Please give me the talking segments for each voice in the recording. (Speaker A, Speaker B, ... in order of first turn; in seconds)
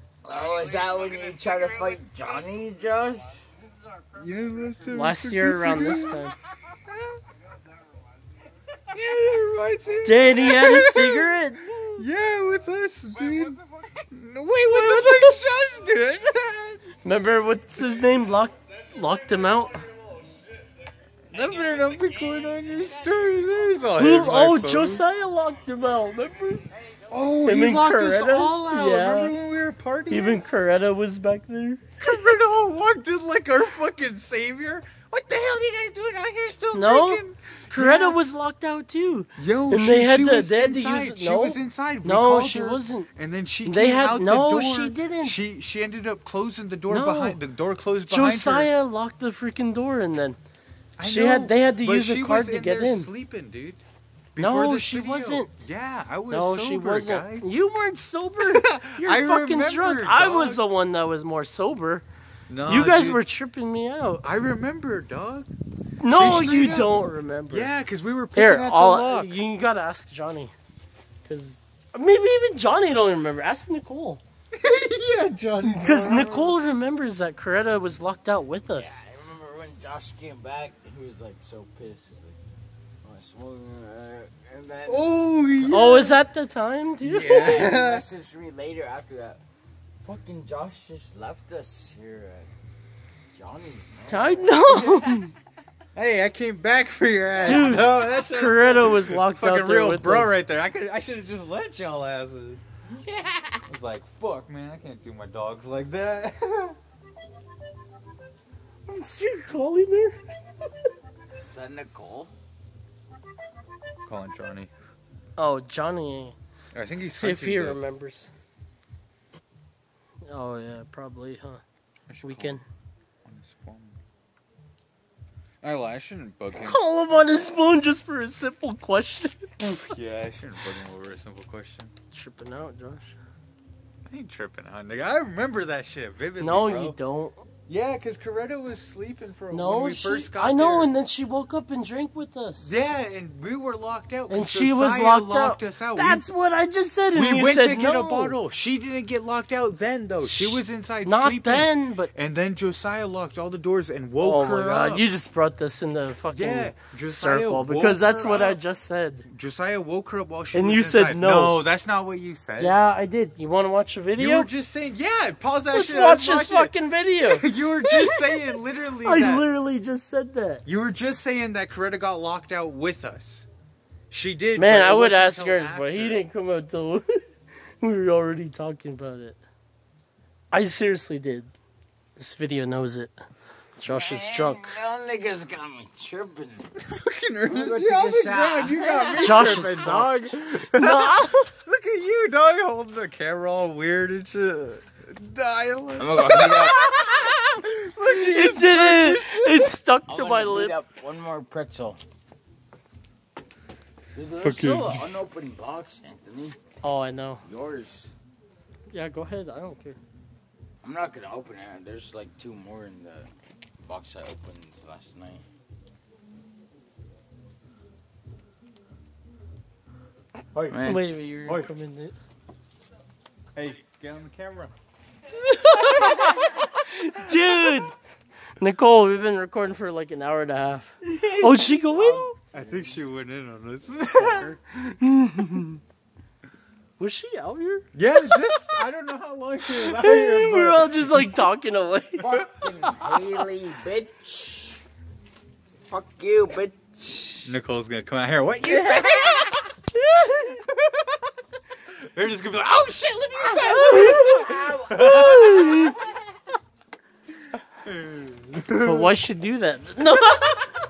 Speaker A: 0.2-1.9, 4.2-6.2, 8.9-11.3, 12.0-16.8, 21.3-25.0, 27.1-30.4, 32.0-38.2, 39.4-48.7, 51.0-53.8, 54.4-57.5, 58.4-60.6, 62.5-63.2, 64.2-65.5, 66.0-69.4, 74.5-76.6, 84.8-86.2, 87.0-88.1, 94.7-95.0, 96.0-106.8, 114.1-114.7, 116.7-117.8, 122.1-122.6, 123.2-124.0, 125.6-126.8, 129.9-131.9, 134.1-137.0, 137.7-140.9, 142.6-146.2, 147.1-155.1, 156.3-158.6, 159.3-162.8, 164.2-166.7, 167.3-169.5, 170.7-173.4, 174.1-176.2, 186.8-199.8, 204.4-205.2, 220.5-221.7, 223.6-224.7, 225.7-227.8, 231.0-234.6, 237.9-241.5, 242.2-243.4, 247.4-249.7, 250.3-251.0, 252.1-256.0, 257.8-259.2
Speaker B: 0.2-3.5, 78.7-82.4, 83.0-85.7, 87.2-89.4, 90.0-92.5, 93.3-94.6, 97.3-98.1, 111.5-112.3, 183.8-186.7, 187.4-189.8, 195.9-196.9, 200.1-202.0, 204.2-206.6, 207.4-208.1, 210.8-213.3, 213.8-215.4, 234.3-234.5, 242.2-244.8, 245.9-247.5, 248.7-249.4, 253.4-255.1
Speaker C: 4.9-6.3, 10.0-12.0, 14.7-15.4, 17.0-19.9, 24.0-26.6, 27.4-29.4, 30.1-32.4, 36.7-43.1, 43.6-45.4, 46.9-47.4, 48.1-50.4, 51.0-53.1, 54.4-55.7, 56.3-62.1, 62.6-64.3, 66.0-67.7, 68.3-70.5, 71.2-74.2, 75.7-79.0, 85.7-87.6, 94.1-95.3, 97.4-100.4, 108.9-110.2, 115.4-116.4, 117.0-118.3, 120.3-121.6, 122.2-122.6, 126.5-129.9, 132.1-133.2, 136.4-137.4, 139.5-142.8, 144.3-148.4, 150.2-152.1, 154.2-159.3, 160.5-161.6, 162.6-164.5, 165.7-170.6, 174.6-177.2, 177.8-179.4, 180.5-181.5, 182.2-183.2, 183.8-184.8, 189.2-191.5, 198.0-200.8, 206.8-207.4, 208.9-210.0, 220.8-222.1, 225.4-226.3, 227.1-227.9, 228.6-232.4, 234.8-235.8, 237.0-238.8, 239.7-242.2, 250.1-250.5, 255.0-255.9, 258.8-260.6